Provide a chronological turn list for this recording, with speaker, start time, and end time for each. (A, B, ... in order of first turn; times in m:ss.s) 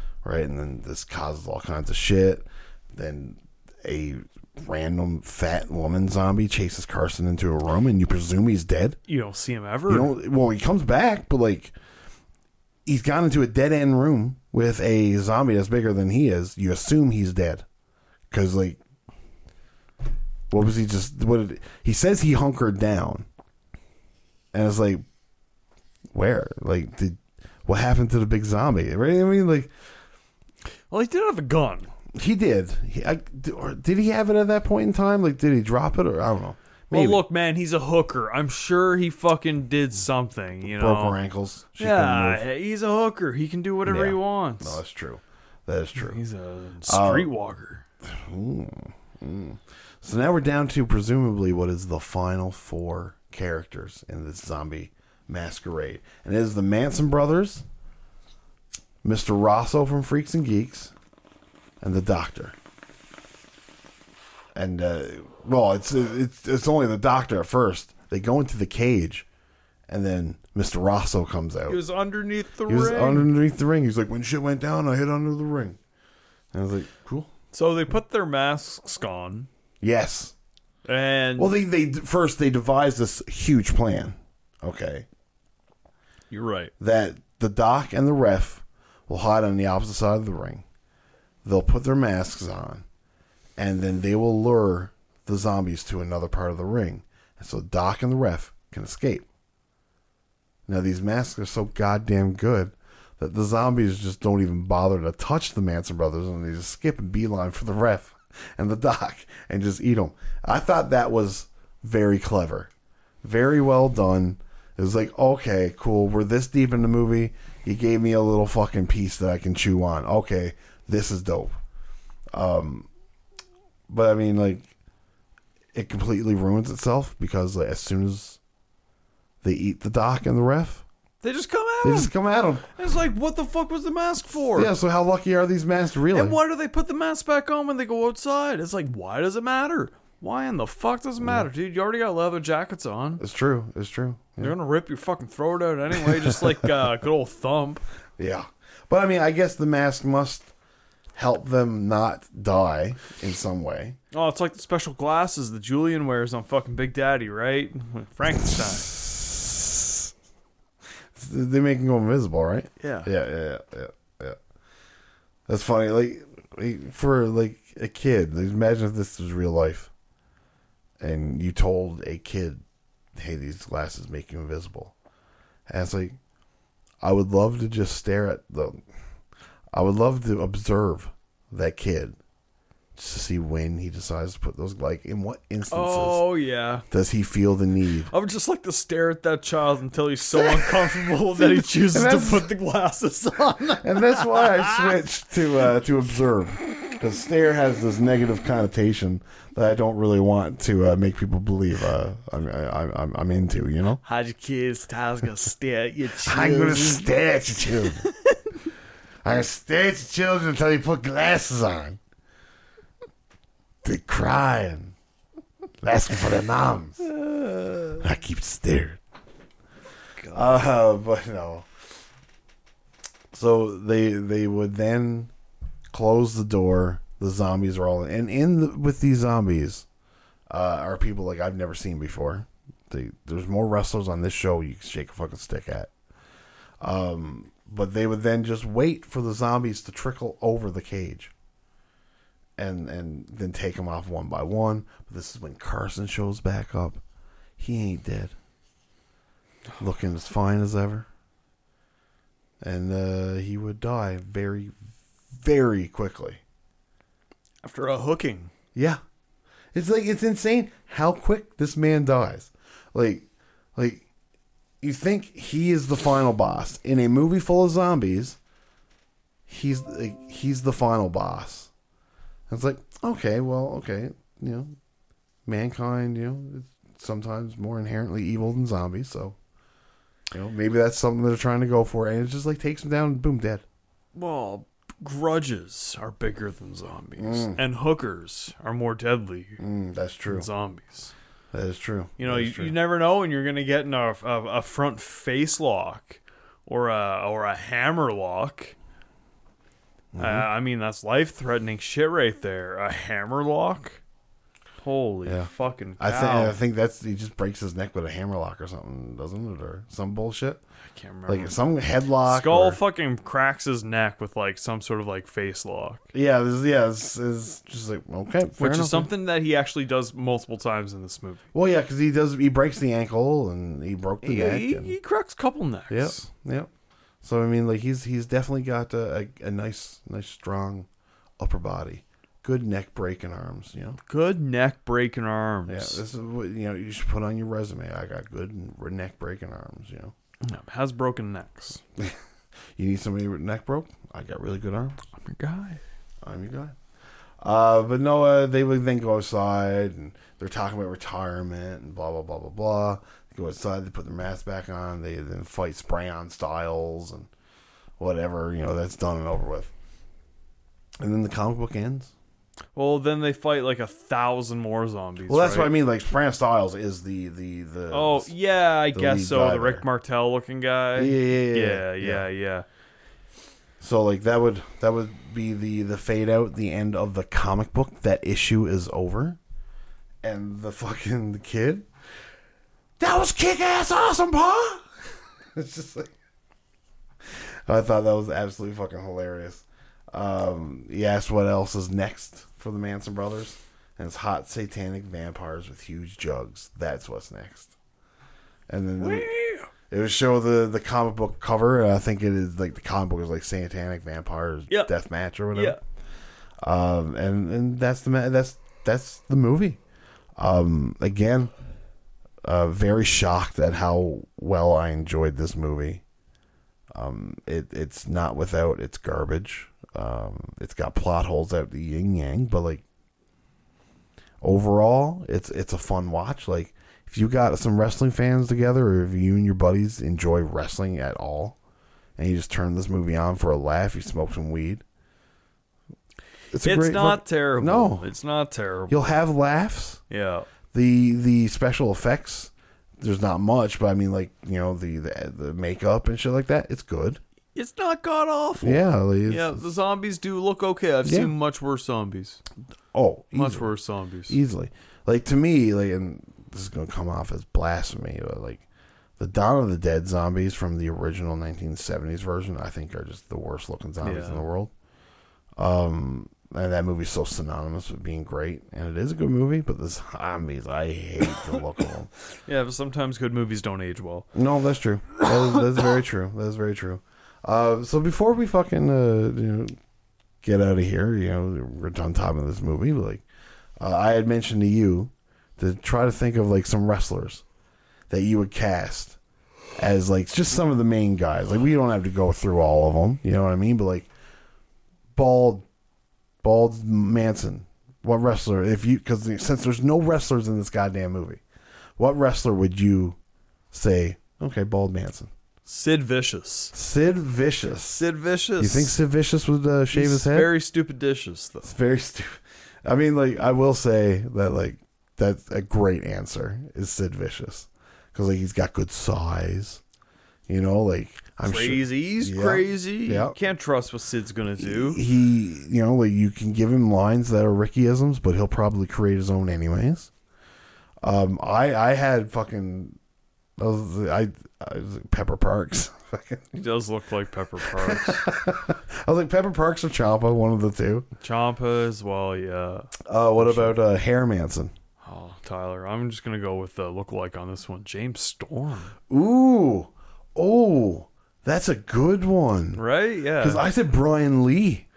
0:00.2-0:09.0 A
0:09.1-0:10.1 B
0:09.9-0:11.7 A
0:12.9-0:17.6 A
0:18.3-0:18.8 A
0:20.5-0:23.3 A
0:24.5-0:25.0 A
0:26.1-0:29.7 A
0:30.9-0:31.9 B
0:32.1-0:37.2 A
0:36.9-0:41.2 B
0:40.6-0:42.4 A
0:41.8-0:44.8 B
0:43.9-0:46.2 A
0:46.0-0:47.8 B
0:46.9-0:47.3 A
0:48.0-0:57.6 A
0:59.0-1:00.9 A
1:01.8-1:02.6 A
1:04.6-1:09.3 A
1:09.9-1:11.8 A
1:11.7-1:13.3 B
1:12.7-1:15.8 A
1:16.5-1:17.3 A
1:17.5-1:19.5 B
1:19.8-1:20.3 A
1:20.9-1:21.5 B
1:21.4-1:25.1 A
1:26.3-1:26.7 B
1:26.8-1:30.6 A
1:31.4-1:32.8 A
1:33.6-1:39.3 A
1:40.7-1:52.7 A
1:53.2-2:01.5 A
2:02.3-2:02.9 A
2:03.9-2:04.7 A
2:05.7-2:08.4 A
2:09.4-2:10.8 A
2:11.2-2:12.1 B
2:11.8-2:12.7 A
2:12.7-2:14.7 B
2:14.6-2:16.4 A
2:16.1-2:23.2 B
2:23.2-2:24.5 A
2:24.4-2:27.8 B
2:28.2-2:30.5 A
2:31.2-2:34.0 A
2:34.1-2:39.0 B
2:38.4-2:40.0 A
2:41.2-2:44.4 A
2:42.8-2:43.1 B
2:45.5-2:49.9 A
2:51.0-2:52.6 A
2:53.2-2:55.0 A
2:55.7-2:56.2 A
2:57.0-2:58.8 A
2:59.7-3:02.2 A
3:03.0-3:06.3 A
3:05.7-3:06.9 B
3:06.9-3:08.1 A
3:08.1-3:15.0 B
3:10.4-3:12.5 A
3:13.8-3:24.0 A
3:24.0-3:27.1 B
3:26.2-3:28.1 A
3:28.0-3:28.4 B
3:29.2-3:32.0 A
3:33.8-3:35.0 A
3:35.8-3:37.0 A
3:37.0-3:38.0 B
3:38.0-3:39.0 A
3:40.2-3:40.6 B
3:40.3-3:41.7 A
3:43.3-3:45.3 A
3:45.9-3:49.9 A
3:50.5-3:55.9 A
3:56.8-4:01.3 A
4:02.6-4:07.0 A
4:07.6-4:08.4 A
4:09.8-4:11.1 A
4:12.6-4:14.8 A
4:15.3-4:16.4 A
4:17.6-4:18.5 B
4:18.8-4:19.0 A
4:19.7-4:24.1 A
4:24.8-4:28.4 A
4:29.5-4:31.7 A
4:32.5-4:34.7 A
4:35.5-4:39.4 A
4:40.3-4:43.6 A
4:44.1-4:49.6 B
4:47.2-4:47.6 A
4:49.6-4:50.5 A
4:50.3-4:51.1 B
4:51.5-4:52.8 A
4:52.2-4:58.8 B
5:00.1-5:00.5 A
5:00.2-5:04.0 B
5:04.8-5:06.6 B
5:05.2-5:10.6 A
5:10.8-5:11.6 B
5:11.3-5:12.8 A
5:12.2-5:16.0 B
5:16.1-5:19.1 A
5:18.6-5:21.4 B
5:21.5-5:25.0 A
5:24.2-5:26.2 B
5:25.9-5:26.7 A
5:27.2-5:30.9 A
5:31.4-5:34.0 A
5:34.1-5:36.0 B
5:35.7-5:40.1 A
5:40.4-5:41.8 B
5:42.8-5:45.0 A
5:45.1-5:45.8 B
5:46.2-5:46.8 A
5:47.4-5:57.3 A
5:58.0-5:59.7 A
6:01.0-6:02.1 A
6:02.8-6:05.7 B
6:05.3-6:08.3 A
6:07.9-6:12.7 B
6:08.9-6:09.8 A
6:11.0-6:12.2 A
6:13.8-6:19.4 A
6:20.2-6:21.9 A
6:23.0-6:24.9 A
6:25.5-6:26.1 A
6:27.7-6:37.8 A
6:38.7-6:39.3 A
6:39.0-6:39.7 B
6:39.9-6:45.8 A
6:45.5-6:45.8 B
6:46.6-6:49.8 A
6:50.4-6:51.5 A
6:52.4-6:56.0 A
6:56.9-7:02.8 A
7:04.4-7:11.6 A
7:12.2-7:14.8 A
7:16.5-7:18.1 A
7:16.6-7:19.2 B
7:18.9-7:20.0 A
7:20.1-7:20.5 B
7:20.7-7:27.2 A
7:27.6-7:32.4 B
7:28.6-7:29.6 A
7:31.0-7:31.3 A
7:32.9-7:33.7 A
7:33.3-7:34.4 B
7:34.3-7:38.6 A
7:39.2-7:44.7 A
7:44.0-7:44.5 B
7:45.6-7:52.1 A
7:52.5-7:54.3 B
7:54.3-7:59.8 A
8:00.4-8:03.2 A
8:03.8-8:07.4 A
8:08.1-8:09.2 A
8:09.8-8:14.1 A
8:15.2-8:15.7 A
8:16.4-8:21.4 A
8:22.0-8:23.2 A
8:23.7-8:25.3 A
8:25.7-8:26.7 B
8:26.7-8:28.0 A
8:27.8-8:29.0 B
8:28.6-8:30.5 A
8:29.9-8:31.7 B
8:31.6-8:39.8 A
8:40.5-8:43.4 A
8:41.4-8:45.0 B
8:44.6-8:50.1 A
8:51.0-8:53.0 A
8:53.6-8:56.5 A
8:56.5-8:58.3 B
8:57.6-9:01.1 A
9:01.2-9:03.8 B
9:03.0-9:04.7 A
9:05.0-9:08.9 B
9:09.1-9:12.8 A
9:12.8-9:13.6 B
9:13.4-9:14.9 A